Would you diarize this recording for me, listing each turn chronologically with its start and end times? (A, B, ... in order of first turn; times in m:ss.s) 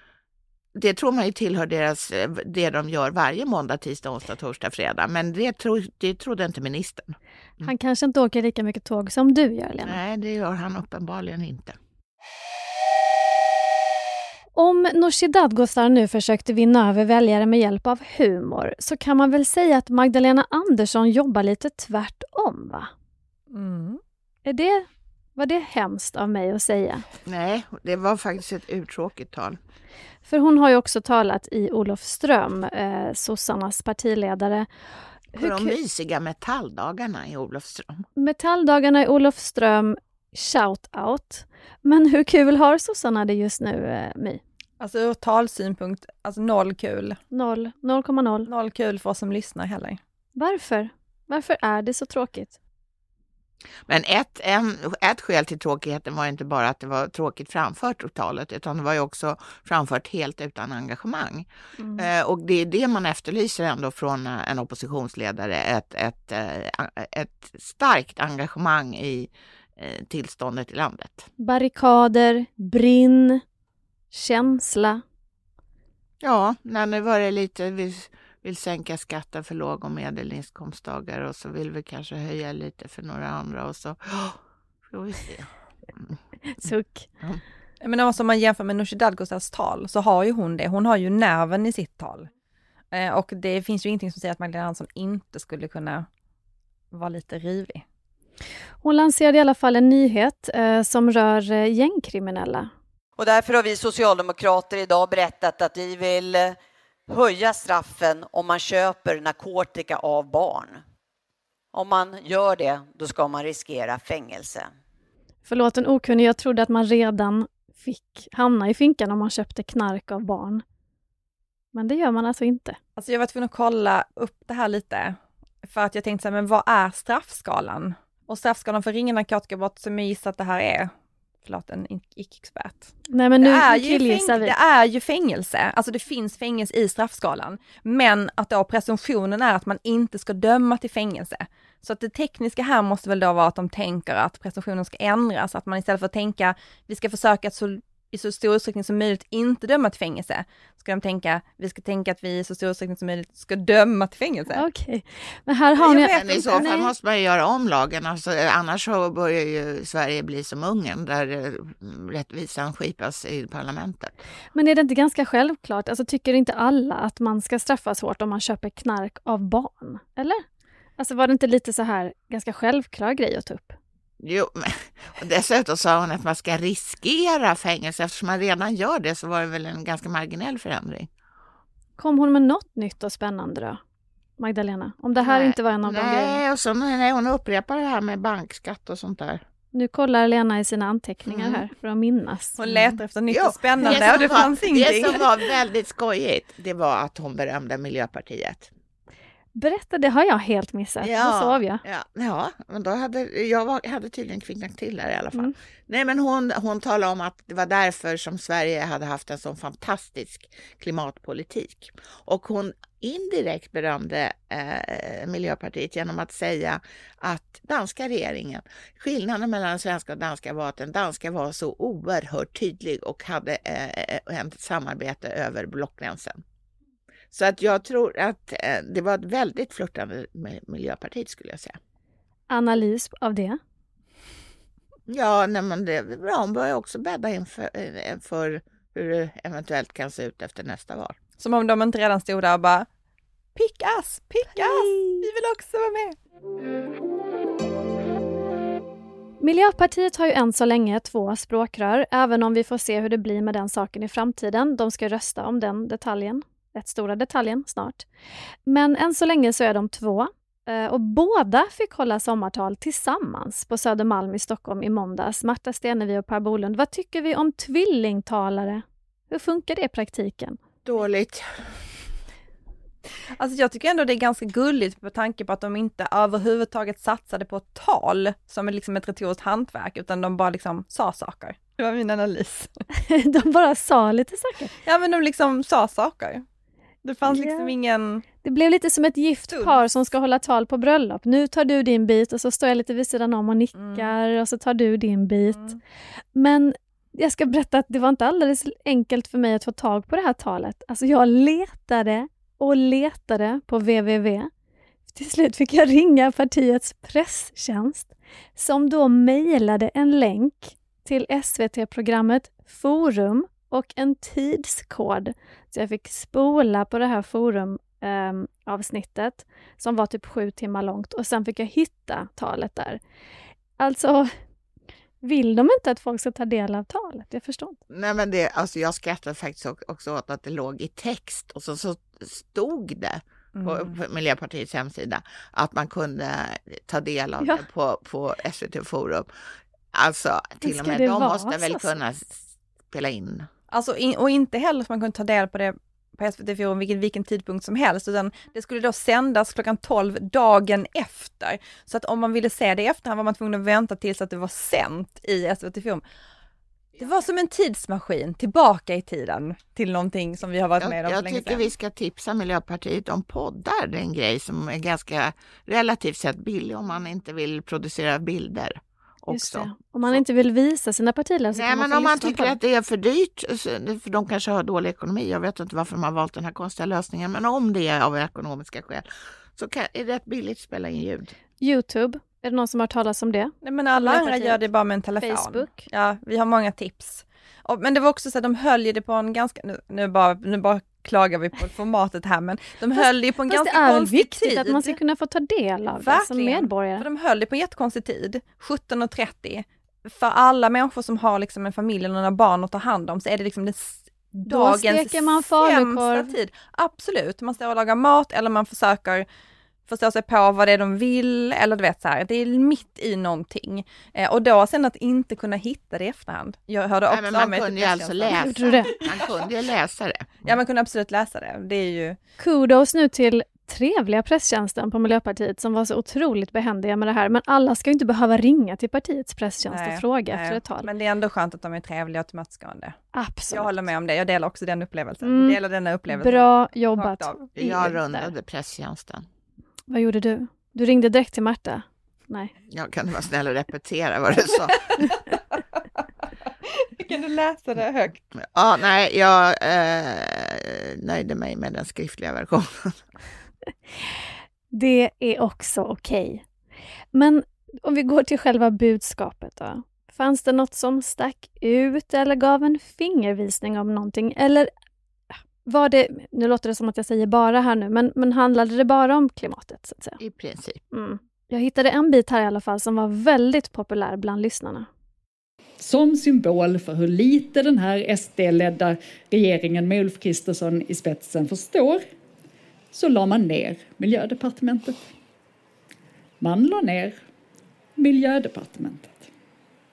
0:00.8-0:07.7 A
0:07.6-0:10.0 B
0:09.8-0:11.8 A
0:14.6-0:22.9 B
0:23.5-0:24.0 C
0:24.5-0:24.9 B
0:25.4-0:27.0 B
0:27.2-0:29.6 A
0:30.3-0:34.7 B
0:35.4-0:35.8 B
0:35.4-0:38.0 A
0:38.2-0:44.4 B
0:44.8-0:47.2 C
0:47.3-0:48.5 B
0:48.5-0:50.0 C
0:50.4-0:52.6 B
0:53.9-1:11.3 A
1:01.8-1:02.1 B
1:11.4-1:13.4 B
1:14.1-1:15.0 B
1:16.2-1:24.4 A
1:24.9-1:27.4 A
1:26.5-1:27.1 B
1:27.8-1:32.3 C
1:32.9-1:36.1 C
1:36.9-1:37.8 C
1:38.8-1:42.7 B
1:43.2-1:46.6 D
1:47.1-1:50.8 D
1:51.7-1:54.7 D
1:55.5-2:00.6 B
2:01.7-2:02.8 B
2:03.0-2:10.9 C
2:11.4-2:34.6 C
2:13.1-2:14.5 B
2:34.5-2:36.9 B
2:35.8-2:44.2 A
2:35.9-2:36.6 C
2:44.6-2:50.4 B
2:51.0-2:53.8 B
2:54.2-3:01.1 A
3:02.0-3:03.8 B
3:04.4-3:06.4 B
3:05.2-3:09.4 A
3:09.7-3:12.6 B
3:11.3-3:11.6 A
3:12.6-3:15.3 C
3:12.7-3:18.7 A
3:13.9-3:14.1 B
3:19.6-3:21.8 B
3:21.0-3:46.4 A
3:47.3-3:51.8 A
3:52.5-3:53.6 B
3:55.1-4:01.2 A
4:01.4-4:02.9 C
4:03.6-4:06.2 C
4:04.6-4:05.2 B
4:09.4-4:18.1 B
4:18.7-4:30.6 B
4:30.8-4:31.6 A
4:33.4-4:42.8 C
4:43.0-4:44.8 B
4:44.8-4:46.4 C
4:47.0-4:48.2 C
4:47.3-4:47.7 B
4:48.4-4:55.8 B
4:49.5-4:49.9 C
4:53.8-4:54.1 C
4:56.4-5:04.5 B
5:05.1-5:23.0 B
5:23.8-5:24.3 B
5:25.2-5:27.8 B
5:27.9-5:39.3 A
5:33.6-5:34.0 C
5:39.9-5:43.5 A
5:40.6-5:42.0 B
5:43.7-5:56.0 C
5:57.0-6:01.7 C
6:00.8-6:10.2 A
6:09.3-6:12.6 B
6:11.6-6:21.3 A
6:21.6-6:24.6 B
6:23.6-6:35.0 C
6:25.2-6:25.9 B
6:33.0-6:37.0 B
6:35.9-6:49.3 C
6:44.5-6:46.3 B
6:49.9-6:59.3 C
6:57.1-7:00.5 A
6:58.3-6:58.9 B
7:00.4-7:02.2 C
7:02.4-7:10.9 B
7:09.7-7:13.0 C
7:13.1-7:13.8 B
7:13.5-7:17.4 C
7:15.2-7:15.6 B
7:16.1-7:18.3 B
7:17.6-7:19.3 A
7:19.9-7:22.5 B
7:22.7-7:24.8 A
7:26.8-7:28.2 C
7:28.4-7:33.0 A
7:34.7-7:36.4 B
7:37.1-7:44.7 B
7:45.6-7:50.2 B
7:50.2-7:50.8 A
7:50.9-7:54.9 B
7:55.8-8:02.0 E
8:02.9-8:05.1 E
8:06.4-8:07.2 E
8:08.0-8:09.3 E